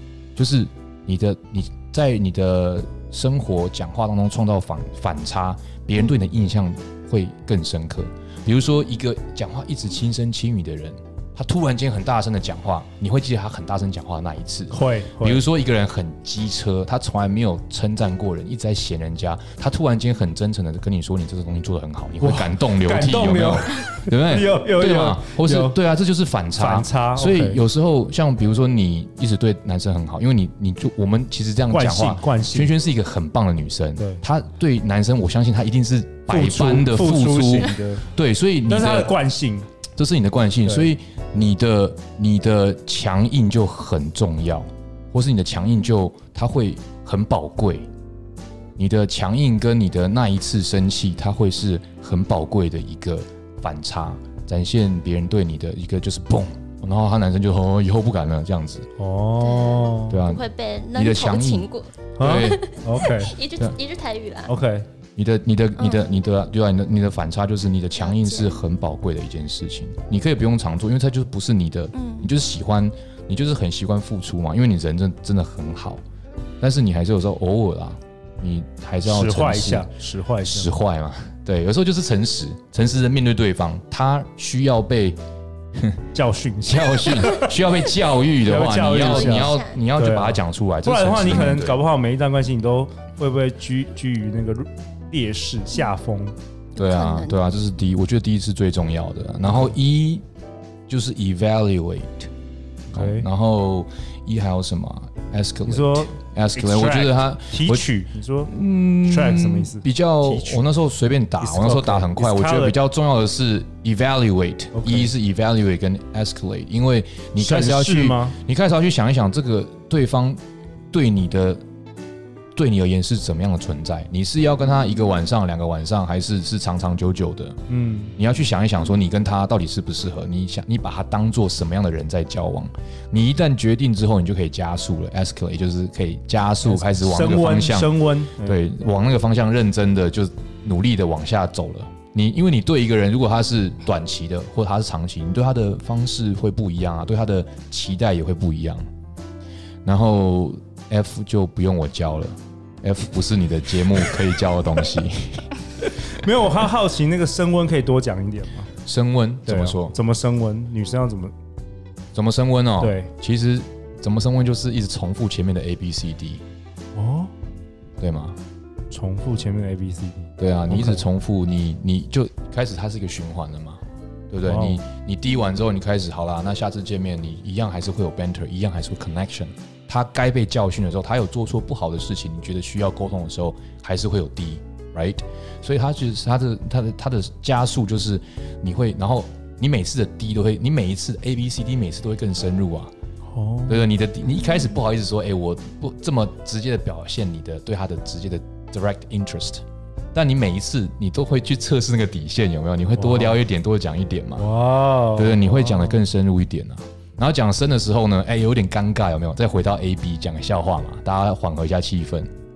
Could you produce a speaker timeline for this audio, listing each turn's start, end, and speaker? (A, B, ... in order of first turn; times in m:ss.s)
0:00.4-0:39.1 A
0:14.7-0:15.4 B
0:22.2-0:25.8 B
0:26.6-0:27.6 B
0:31.7-0:32.7 B
0:34.0-0:34.2 B
0:36.3-0:38.0 B
0:38.7-0:39.7 B
0:40.0-0:47.9 A
0:48.8-0:58.9 A
0:59.0-1:00.2 B
0:59.4-1:04.5 C
1:00.1-1:01.7 A
1:02.2-1:02.6 A
1:02.2-1:03.4 B
1:04.5-1:04.9 B
1:05.2-1:16.0 A
1:05.8-1:06.1 C
1:08.0-1:08.6 C
1:11.9-1:12.3 C
1:16.6-1:19.9 A
1:19.0-1:20.7 B
1:20.4-1:25.2 A
1:26.2-1:27.5 B
1:26.7-1:31.8 A
1:28.4-1:36.4 B
1:29.0-1:29.8 C
1:36.8-1:37.4 C
1:36.8-1:40.2 A
1:40.9-1:42.3 A
1:42.9-1:43.3 B
1:42.9-1:47.9 A
1:45.7-1:50.6 B
1:48.5-2:00.4 A
1:51.4-1:52.8 B
1:54.7-1:55.1 B
1:57.4-1:58.4 B
2:00.9-2:01.6 A
2:02.6-2:07.6 A
2:07.7-2:08.2 B
2:08.2-2:28.8 A
2:16.6-2:18.6 B
2:29.8-2:35.5 A
2:36.1-2:38.7 B
2:38.8-2:40.0 A
2:39.5-2:41.3 B
2:42.1-2:46.4 A
2:42.8-2:43.1 B
2:47.0-2:47.3 B
2:48.0-2:48.4 A
2:48.9-2:51.0 B
2:50.4-3:12.9 A
2:54.4-2:54.8 B
3:13.3-3:13.8 B
3:13.7-3:24.5 A
3:23.0-3:23.4 B
3:24.4-3:26.0 B
3:25.2-3:32.3 A